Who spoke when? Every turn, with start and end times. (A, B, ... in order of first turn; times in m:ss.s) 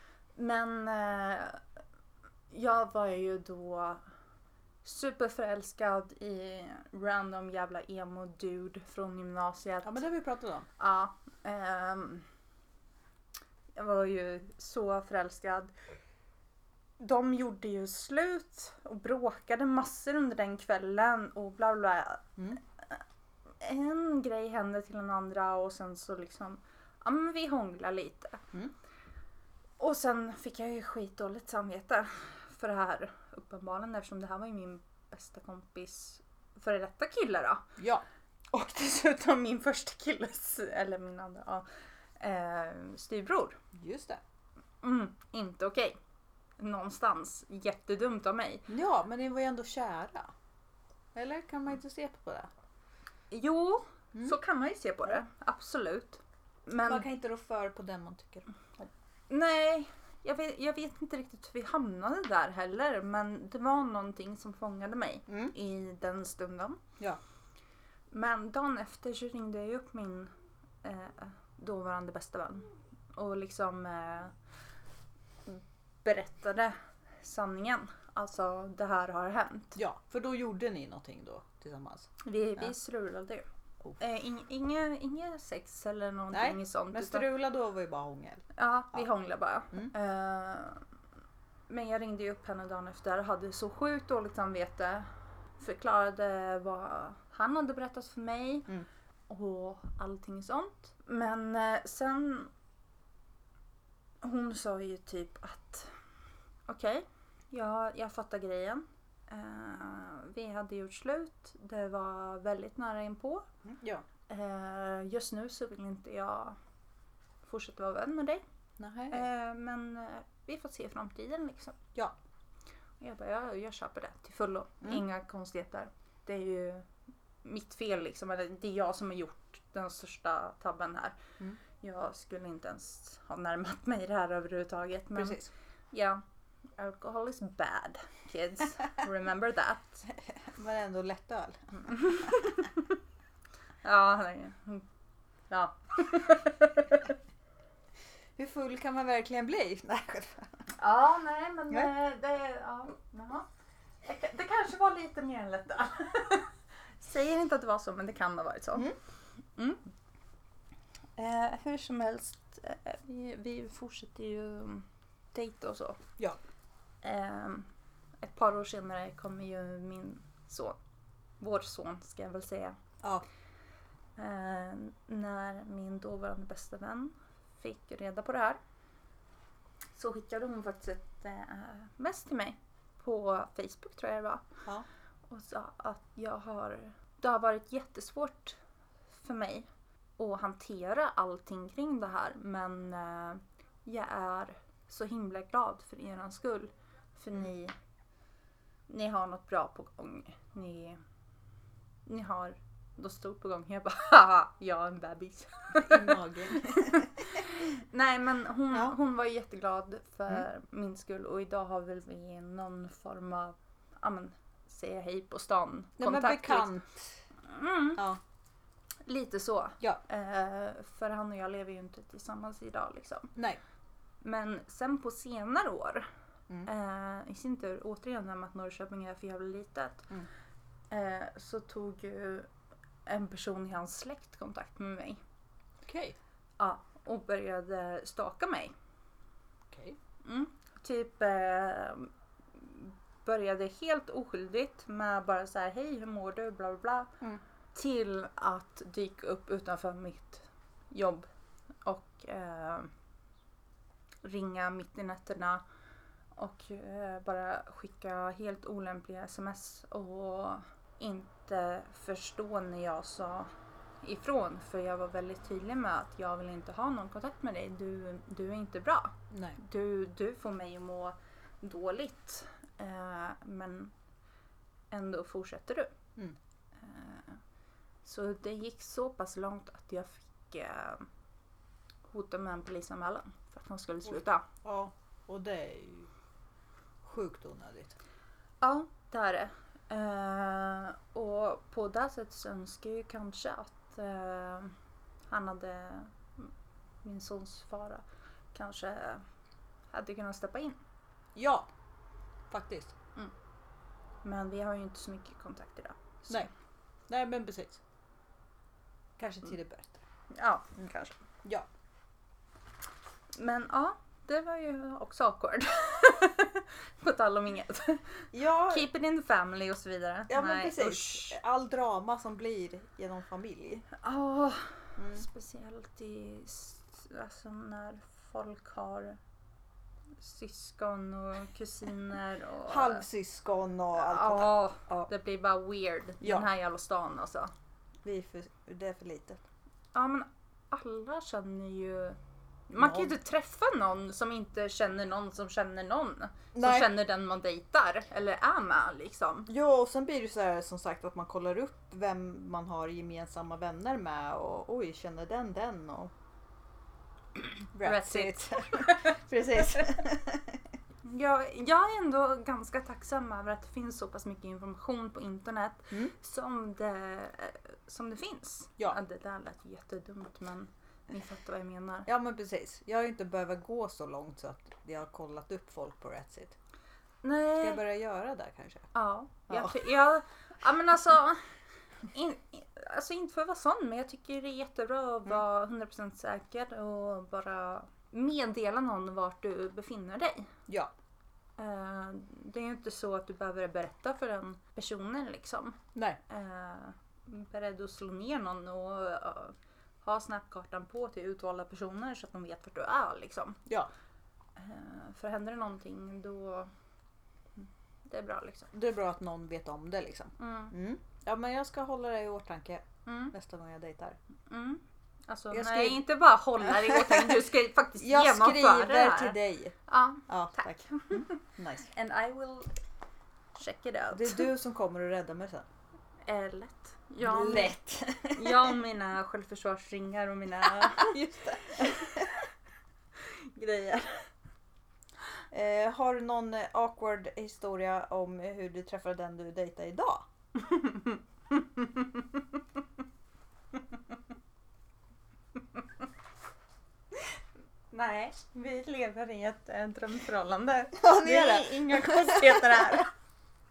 0:00.4-0:01.6 A
0:02.5-0:04.0 A
0:04.8-0:10.0 A
0:09.8-0:10.7 B
0:10.8-0:12.2 A
0:13.7-0:15.7 A
0:17.0-0:23.0 A
0:23.6-0:28.4 A
0:29.8-0:37.7 A
0:37.8-0:38.0 B
0:38.5-0:41.6 A
0:42.2-0:43.6 A
0:43.7-0:44.2 B
0:44.8-0:46.0 A
0:46.6-0:48.7 A
0:48.7-0:50.3 B
0:51.1-0:52.5 B
0:53.3-0:57.0 A
0:56.8-0:58.4 B
0:59.3-1:06.8 A
1:05.3-1:05.5 B
1:08.1-1:10.3 A
1:10.8-1:14.3 A
1:15.4-1:19.8 A
1:19.8-1:22.7 B
1:22.2-1:23.4 A
1:24.0-1:27.2 A
1:26.3-1:29.0 B
1:28.5-1:30.8 A
1:31.7-1:35.1 A
1:35.6-1:38.7 A
1:39.3-1:42.5 A
1:44.2-1:45.9 A
1:46.7-1:53.4 A
1:53.6-1:54.0 B
1:54.3-1:56.6 A
1:57.4-1:58.4 A
1:58.8-1:59.2 B
1:59.1-2:01.8 A
2:03.0-2:06.9 A
2:07.4-2:11.2 A
2:11.8-2:16.2 A
2:15.1-2:15.5 B
2:16.8-2:20.0 A
2:20.1-2:22.3 B
2:21.8-2:22.9 A
2:23.8-2:24.8 A
2:25.5-2:27.2 A
2:28.4-2:30.6 B
2:30.7-2:33.5 A
2:34.0-2:39.0 A
2:39.6-2:39.8 A
2:41.2-2:46.0 A
2:47.0-2:47.7 A
2:48.2-2:50.8 A
2:51.4-2:52.8 A
2:54.2-2:58.6 A
3:00.0-3:04.5 A
3:05.3-3:08.6 A
3:09.1-3:17.7 A
3:18.9-3:21.0 A
3:22.0-3:36.7 A
3:25.7-3:27.2 B
3:36.0-3:37.2 B
3:37.4-3:38.0 A
3:39.0-3:43.3 A
3:43.3-3:43.6 B
3:44.2-3:46.1 A
3:46.6-3:50.1 A
3:50.9-3:52.5 A
3:53.0-3:55.2 A
3:55.8-3:56.2 B
3:56.6-3:58.7 A
3:59.7-4:00.0 B
4:00.2-4:07.1 A
4:07.7-4:11.2 A
4:11.8-4:12.9 A
4:14.2-4:15.6 A
4:16.4-4:23.5 A
4:24.0-4:33.9 A
4:29.3-4:29.6 B
4:34.9-4:35.9 A
4:36.8-4:37.4 A
4:38.0-4:41.1 A
4:42.1-4:44.4 A
4:44.6-4:46.1 B
4:47.0-4:48.0 B
4:48.6-4:54.7 A
4:55.3-4:56.5 A
4:57.0-4:59.2 A
4:59.9-5:00.8 A
5:01.3-5:01.7 B
5:02.5-5:02.9 B
5:04.2-5:06.5 A
5:07.1-5:07.8 B
5:09.2-5:10.0 B
5:10.3-5:11.2 A
5:13.3-5:21.4 A
5:18.3-5:18.8 B
5:20.3-5:23.8 B
5:23.9-5:29.2 A
5:25.0-5:25.2 B
5:30.2-5:33.0 A
5:32.6-5:35.1 B
5:33.9-5:37.5 A
5:36.2-5:36.5 B
5:38.0-5:39.4 B
5:39.9-5:42.2 A
5:42.7-5:49.5 A
5:42.8-5:43.1 B
5:46.5-5:46.9 B
5:49.5-5:56.1 B
5:57.7-6:00.6 B
5:57.8-6:00.0 A
6:01.0-6:12.1 A
6:12.0-6:16.6 B
6:17.2-6:17.8 A
6:17.6-6:18.9 B
6:18.9-6:21.4 A
6:19.5-6:19.8 B
6:22.1-6:30.5 A
6:31.6-6:43.6 A
6:44.6-6:46.7 A
6:47.6-6:48.7 A
6:48.7-6:54.2 B
6:50.4-6:50.7 A
6:53.0-6:53.3 A
6:54.5-7:02.8 A
6:55.5-6:56.0 B
6:56.6-6:57.4 B
6:58.0-6:59.8 B
7:00.3-7:01.9 B
7:03.5-7:04.5 A
7:04.1-7:05.7 B
7:06.2-7:12.4 A
7:07.2-7:08.8 B
7:10.6-7:12.4 B
7:13.2-7:14.3 A
7:15.5-7:20.3 B
7:20.6-7:22.4 A
7:27.9-7:33.1 A
7:30.9-7:33.0 B